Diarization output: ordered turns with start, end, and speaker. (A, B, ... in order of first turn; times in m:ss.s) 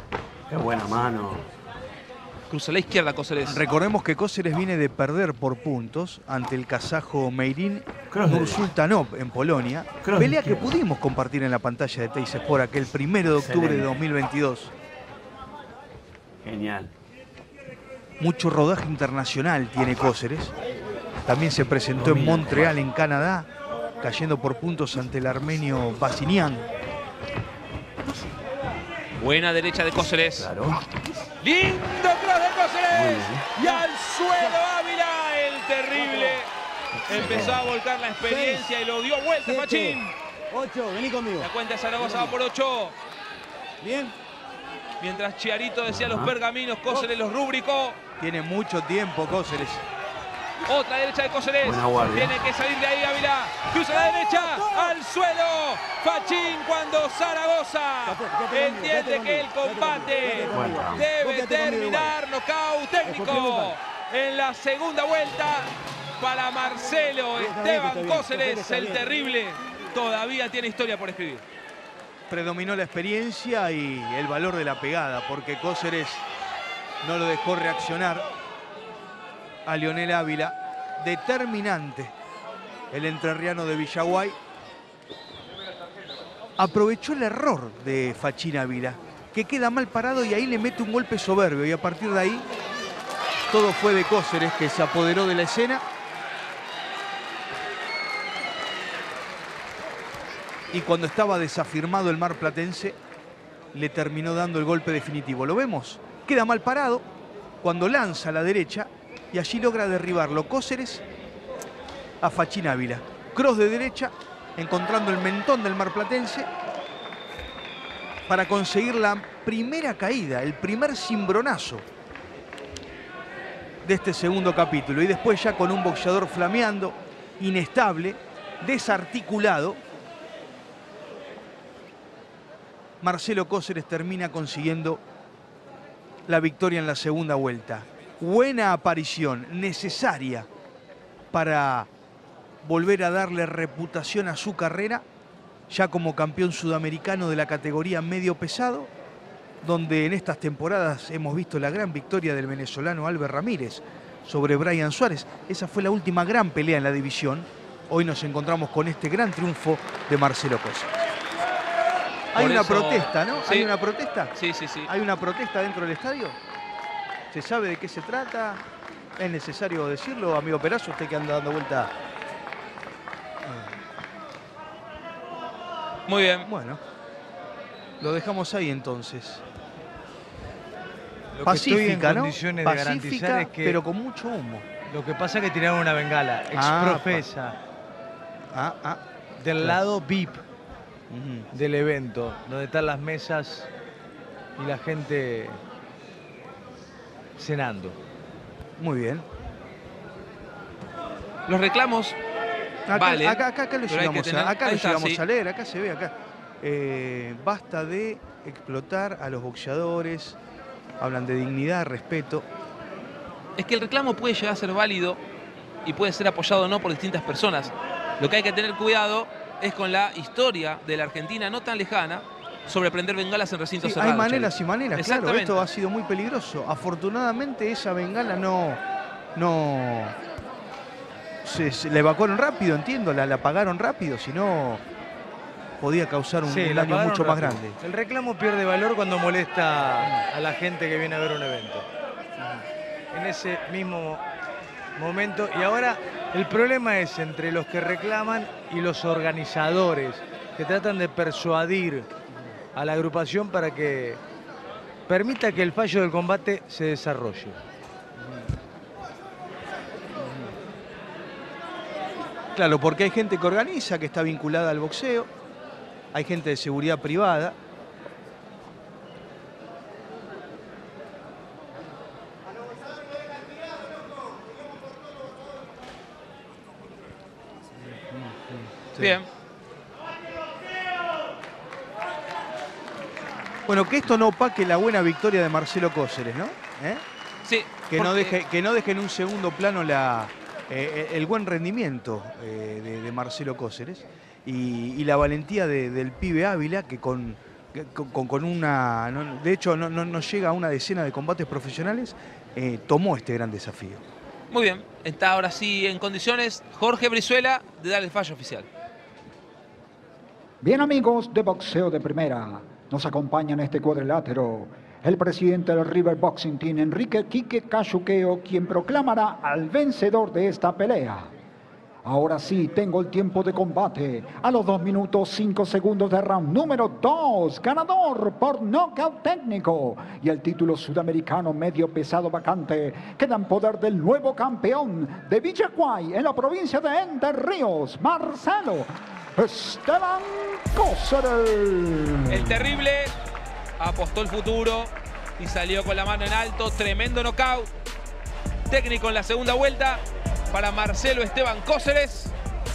0:00.5-0:01.4 A
0:02.5-0:03.6 B
0:03.4-0:14.7 C
0:08.1-0:08.6 A
0:10.0-0:10.8 A
0:13.3-0:13.9 A
0:16.4-0:16.9 A
0:18.2-0:20.6 C
0:21.2-0:23.5 C
0:21.9-0:22.8 A
0:24.0-0:26.7 C
0:29.1-0:30.5 B
0:30.4-0:30.8 A
0:31.4-0:36.5 B
0:32.9-0:33.5 A
0:33.6-0:34.5 D
0:36.0-0:36.4 D
0:37.0-0:37.6 A
0:37.1-0:40.1 B
0:37.1-0:37.6 D
0:38.2-0:38.8 D
0:39.4-0:42.3 D
0:41.4-0:43.0 B
0:43.8-0:44.1 D
0:45.0-0:48.0 B
0:45.9-0:46.3 A
0:48.2-0:49.8 C
0:50.6-1:11.4 B
0:51.6-0:52.4 A
0:54.5-0:54.9 D
0:58.0-1:02.1 D
1:00.5-1:01.1 A
1:03.0-1:03.8 D
1:07.4-1:09.1 D
1:12.3-1:16.3 C
1:17.0-1:18.3 C
1:19.6-1:22.1 C
1:22.9-1:24.4 C
1:26.6-1:32.5 C
1:33.4-1:35.8 C
1:40.7-1:43.0 C
1:43.7-1:47.1 C
1:47.6-1:51.0 C
1:52.2-1:56.5 C
1:58.3-2:01.9 C
2:03.8-2:09.8 C
2:13.0-2:15.0 C
2:16.3-2:20.5 C
2:21.3-2:21.9 C
2:22.6-2:25.0 C
2:25.7-2:28.9 C
2:29.6-2:41.1 C
2:42.3-2:44.4 C
2:42.4-2:43.7 B
2:44.3-2:44.9 B
2:44.9-2:46.4 C
2:47.3-2:48.6 C
2:49.2-2:51.9 C
2:53.4-2:53.7 C
2:56.1-2:56.5 B
2:56.4-2:56.8 C
2:58.0-2:59.4 C
3:01.4-3:03.8 E
3:01.4-3:04.6 C
3:04.9-3:07.6 E
3:06.6-3:07.2 C
3:08.5-3:09.0 C
3:09.4-3:10.4 E
3:11.1-3:11.5 C
3:11.5-3:13.7 E
3:14.6-3:15.6 E
3:17.4-3:18.0 E
3:18.8-3:19.2 C
3:21.5-3:22.2 B
3:22.9-3:30.4 C
3:22.9-3:25.2 B
3:31.0-3:32.5 C
3:33.6-3:35.2 B
3:35.8-3:45.6 B
3:43.8-3:48.8 C
3:49.4-3:50.2 C
3:51.4-3:54.8 C
3:55.8-3:57.8 C
3:56.4-4:01.9 E
4:03.1-4:04.2 E
4:05.0-4:12.1 E
4:12.8-4:14.2 E
4:15.1-4:17.6 E
4:22.5-4:25.3 C
4:26.1-4:27.6 C
4:38.1-4:39.2 C
4:39.0-4:39.3 B
4:43.7-4:47.0 C
4:47.4-4:48.4 B
4:47.9-5:04.0 C
5:04.5-5:08.7 B
5:10.6-5:21.3 F
5:22.0-5:42.4 F
5:42.3-5:43.1 B
5:43.8-5:47.7 B
5:48.7-5:52.3 B